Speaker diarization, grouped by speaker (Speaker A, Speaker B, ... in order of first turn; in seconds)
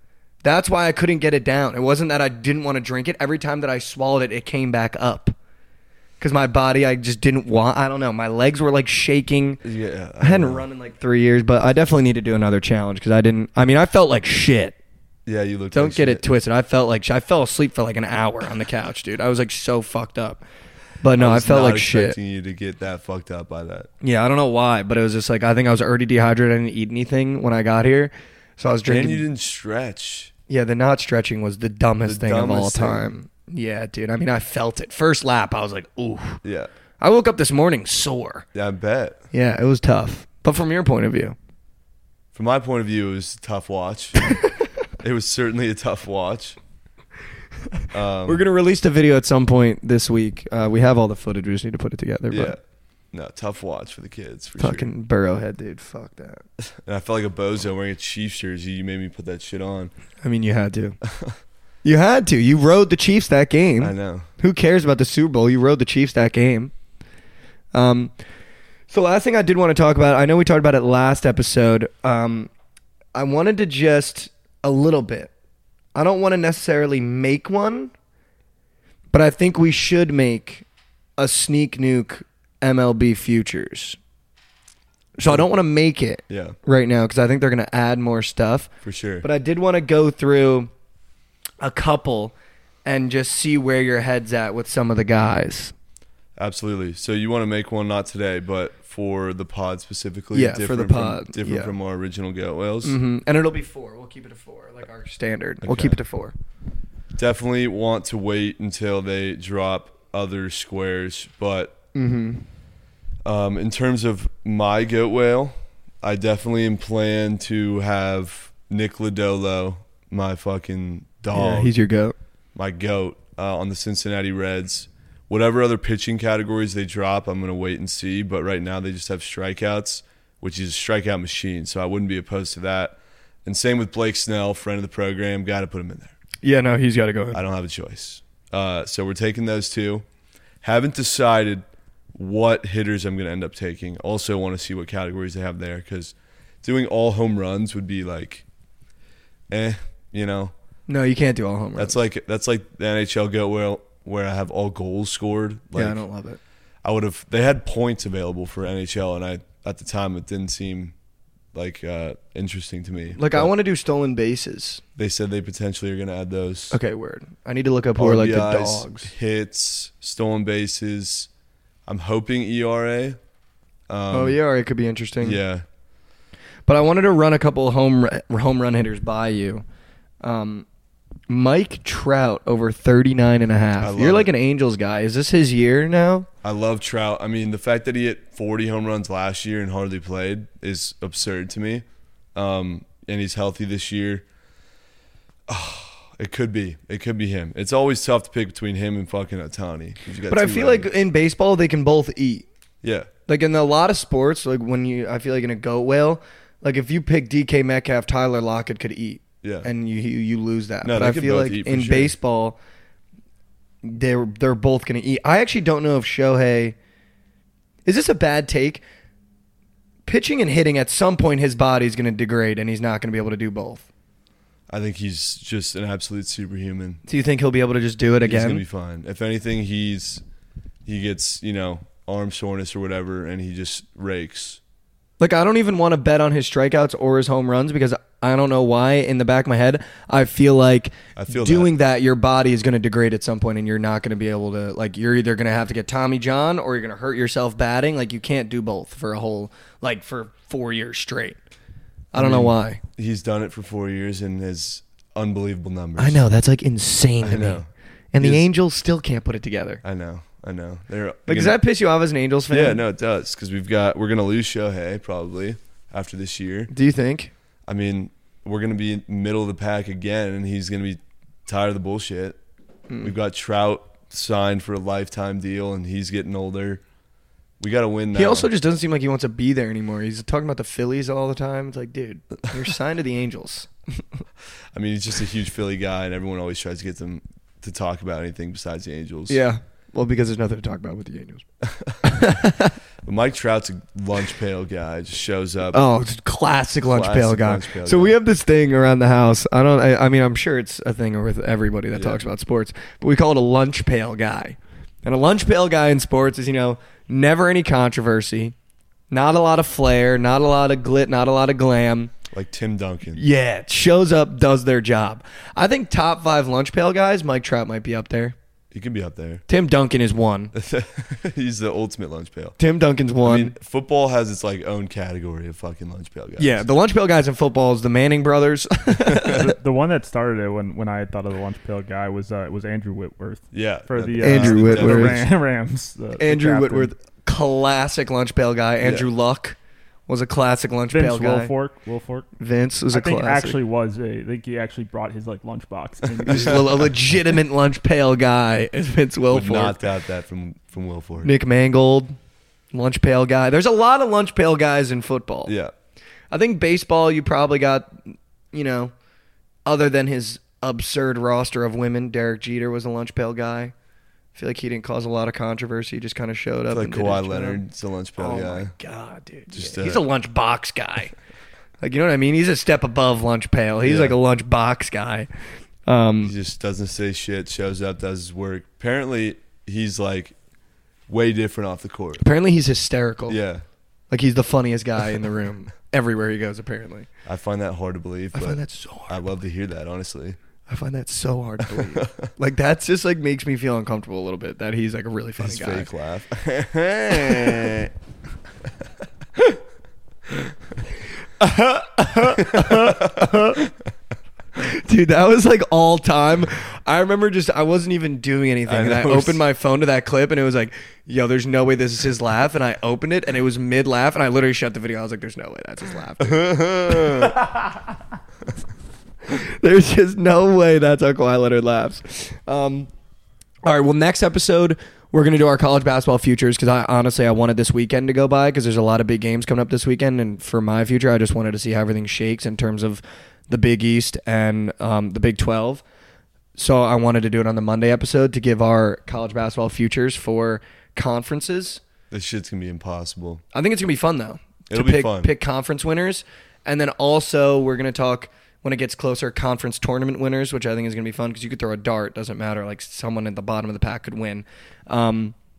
Speaker A: 0.4-5.3, 6.2-9.6, 10.2-14.8, 15.7-20.4, 21.0-22.2, 24.0-29.3, 30.5-36.4, 37.0-38.5, 39.3-41.4, 48.3-52.6, 54.6-56.4, 60.2-61.0, 61.8-66.7, 67.7-68.1, 68.9-72.5, 73.2-75.3, 76.0-77.9, 79.1-80.7, 81.2-84.0, 85.2-88.7, 89.2-90.7, 91.6-95.7, 100.3-101.7, 102.8-106.3, 112.0-112.5, 121.3-122.2, 136.4-137.4, 150.9-152.0, 155.8-156.4, 163.2-164.8, 166.7-169.1, 174.1-175.4, 176.7-179.7, 180.2-180.7, 181.3-186.3, 200.3-202.5, 203.3-212.6, 213.8-216.8, 217.8-218.8, 220.1-223.9, 227.1-228.6, 235.2-251.4, 252.1-252.8, 256.0-257.6, 258.1-259.8, 261.3-262.8, 266.7-267.3, 272.9-273.1, 278.1-283.7, 289.3-291.4, 292.0-292.8, 295.7-308.5, 309.1-312.1, 313.1-318.4, 319.5-320.5, 322.6-323.5, 326.4-329.6, 334.2-335.2, 336.2-339.6, 340.1-341.5, 342.4-343.6, 346.3-349.8, 351.2-352.2, 352.7-355.5, 356.3-358.9, 359.7-363.7, 364.4-367.6, 368.2-371.1, 371.8-375.3, 375.9-376.3, 382.2-383.4, 384.1-387.1, 388.3-389.2, 390.7-395.9, 401.4-403.6, 404.6-417.6, 419.3-422.9, 423.6-435.8, 436.6-441.8, 443.5-455.4
Speaker B: 9.6-10.7, 15.3-16.3, 21.2-23.9, 28.9-30.3, 32.1-33.1, 36.4-36.7, 38.5-39.2, 42.3-44.2, 45.0-46.6, 47.9-48.4, 52.3-52.6, 53.1-54.9, 56.6-59.9, 61.1-61.4, 63.8-64.3, 86.3-86.6, 88.8-89.2, 96.4-103.0, 105.6-106.0, 107.2-111.8, 113.2-121.7, 122.5-136.1, 137.3-140.1, 140.6-141.6, 142.1-148.4, 149.5-150.5, 151.8-156.0, 156.8-160.9, 161.5-163.5, 165.0-166.8, 168.0-171.3, 171.9-173.2, 173.9-174.4, 175.2-175.6, 183.8-184.3, 186.4-194.2, 195.5-200.9, 202.8-203.1, 209.4-209.7, 210.8-212.2, 224.7-227.0, 228.2-230.2, 230.8-234.6, 241.2-241.7, 252.2-256.3, 257.2-257.7, 258.2-258.4, 259.8-261.6, 262.5-266.7, 267.7-272.4, 273.0-276.8, 277.6-278.5, 284.7-289.4, 291.6-292.0, 293.0-295.8, 296.8-298.2, 301.9-302.2, 312.3-313.2, 318.7-319.4, 320.5-322.6, 323.2-326.7, 333.5-335.2, 338.8-339.1, 346.1-346.9, 349.3-351.3, 355.5-355.7, 366.7-368.7, 369.5-370.0, 373.8-374.2, 376.2-380.4, 381.1-382.2, 383.3-383.6, 387.3-390.4, 391.6-392.3, 395.4-397.9, 402.4-403.7, 408.7-409.5, 416.2-417.4, 442.1-443.4, 444.7-445.3
Speaker C: 329.2-336.9, 340.9-342.3, 342.9-346.9